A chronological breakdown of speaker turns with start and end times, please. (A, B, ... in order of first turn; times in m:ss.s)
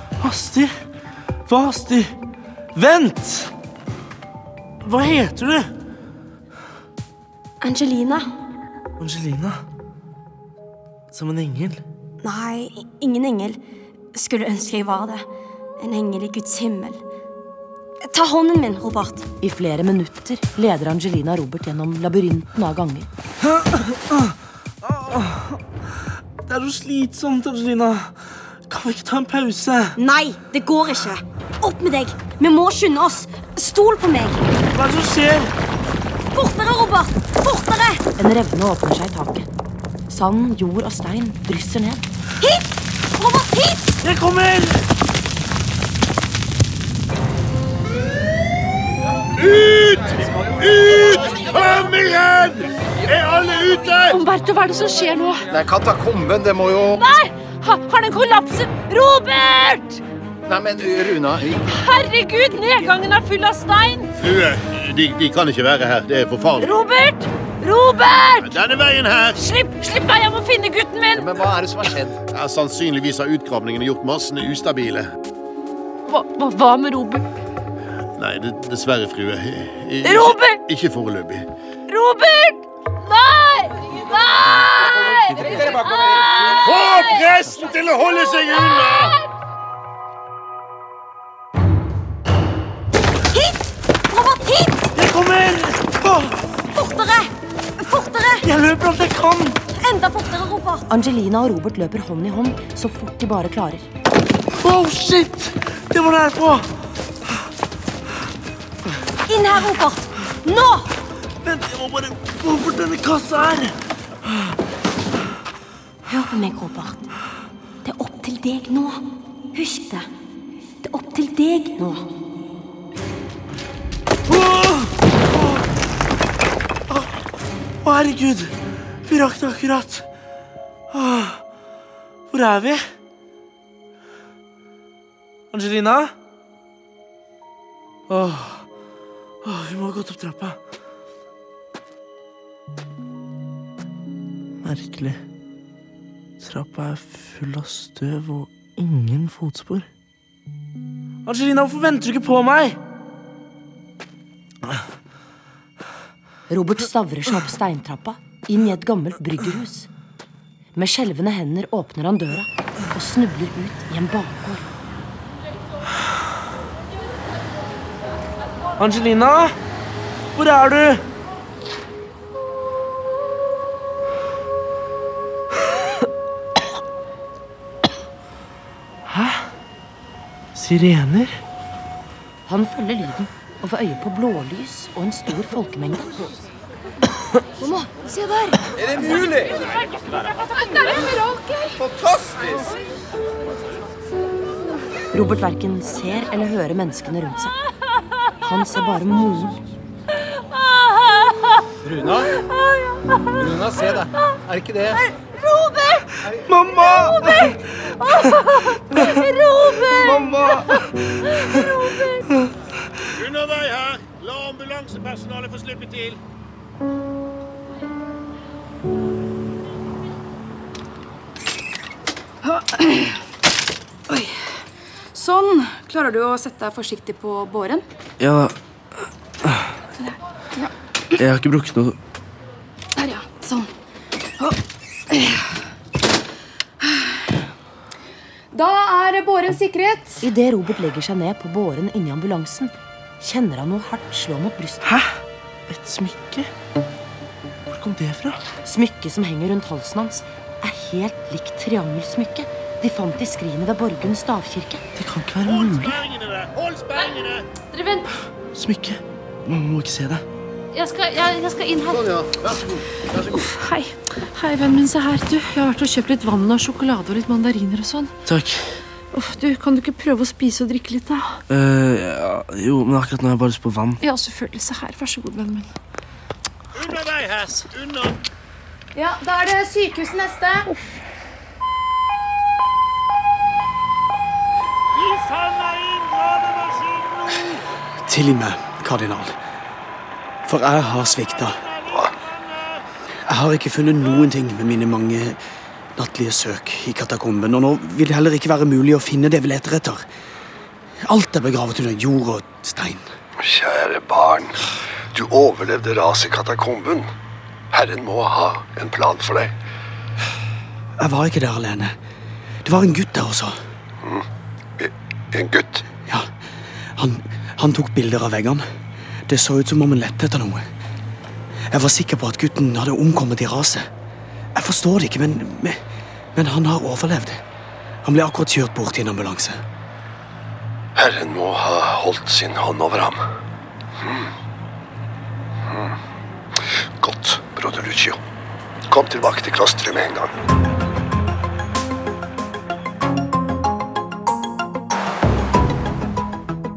0:00.2-0:00.7 A
0:01.5-0:02.1 A
0:02.8-0:03.5 A
0:04.8-0:05.7 A
0:07.6-0:08.2 B
0:09.0-0:09.6 A
0:11.1-0:11.8 A
0:12.2-0:13.6 B
0:14.1-0:15.2 B
0:15.8-0:17.0 B
0:18.1-0:19.3 B
0:19.4-0:23.1 C
0:23.7-0:24.3 A
0:24.8-0:25.6 A
0:26.4-0:28.1 A
0:28.7-0:30.0 A
0:30.0-0:34.5 B
0:34.7-0:35.5 A
0:36.3-0:38.0 B
0:38.2-0:39.5 C
0:40.1-0:42.1 C
0:42.4-0:43.9 B
0:44.0-0:44.8 A
0:49.4-0:54.2 D
0:54.1-0:55.4 E
0:55.5-0:57.1 F
0:56.9-1:00.0 E
1:00.4-1:01.8 F
1:01.7-1:04.1 E
1:04.2-1:06.7 D
1:06.6-1:08.6 E
1:08.4-1:09.4 D
1:09.4-1:11.3 E
1:11.1-1:12.2 F
1:12.3-1:15.1 D
1:16.1-1:17.2 E
1:18.2-1:21.4 D
1:20.0-1:20.6 E
1:21.9-1:27.3 E
1:26.5-1:29.1 D
1:33.3-1:34.9 B
1:34.9-1:36.3 A
1:36.7-1:38.5 B
1:38.4-1:39.6 A
1:39.7-1:40.8 B
1:40.9-1:43.9 C
1:44.6-1:46.7 A
1:49.3-1:50.9 B
1:51.4-1:53.8 A
1:56.1-1:57.0 B
1:56.4-1:56.7 C
1:57.9-1:59.0 B
1:59.5-2:00.1 B
2:00.8-2:01.8 B
2:04.3-2:05.6 A
2:07.8-2:10.1 A
2:10.9-2:11.4 A
2:12.3-2:12.8 A
2:15.5-2:16.1 A
2:18.1-2:18.6 A
2:19.4-2:20.6 A
2:24.6-2:25.2 A
2:26.4-2:29.9 A
2:31.2-2:32.8 A
2:36.5-2:39.9 C
2:40.8-2:44.7 C
2:48.8-2:49.6 A
2:50.4-2:51.0 A
2:59.1-2:59.5 A
3:00.6-3:01.4 A
3:02.5-3:06.3 C
3:15.1-3:17.6 C
3:18.4-3:19.6 C
3:21.8-3:22.3 F
3:23.4-3:25.0 F
3:25.4-3:26.0 E
3:26.2-3:26.5 F
3:26.5-3:27.5 A
3:28.0-3:30.1 E
3:29.9-3:30.9 A
3:33.1-3:36.2 D
3:45.1-3:47.8 G
3:48.2-3:48.6 A
3:49.4-3:49.7 A
3:51.2-3:52.0 A
3:53.0-3:53.6 G
3:58.6-4:00.2 G
4:00.2-4:04.9 C
4:04.8-4:06.5 A
4:07.7-4:08.4 A
4:08.6-4:14.8 C
4:15.0-4:16.0 A
4:15.4-4:17.5 D
4:17.7-4:18.1 E
4:18.5-4:20.2 A
4:20.7-4:22.1 E
4:21.9-4:23.5 D
4:23.2-4:28.1 E
4:28.2-4:28.6 A
4:29.1-4:31.4 E
4:31.5-4:34.0 A
4:34.0-4:35.7 E
4:36.7-4:38.2 D
4:39.0-4:40.6 G
4:44.9-4:47.6 D
4:48.1-4:49.3 H
4:50.4-4:51.6 H
4:51.7-4:52.8 D
4:53.3-4:55.4 H
4:56.0-5:00.0 H
5:01.1-5:03.1 H
5:03.4-5:04.6 I
5:05.1-5:07.1 I
5:07.7-5:09.6 I
5:11.0-5:11.9 H
5:12.6-5:13.6 H
5:14.8-5:15.8 I
5:16.9-5:18.7 H
5:19.3-5:20.7 H
5:21.7-5:23.9 H
5:24.6-5:25.8 H
5:26.3-5:27.4 H
5:28.0-5:29.6 H
5:31.0-5:33.2 I
5:34.0-5:34.3 I
5:35.7-5:35.9 I
5:37.0-5:38.2 I
5:38.9-5:40.3 I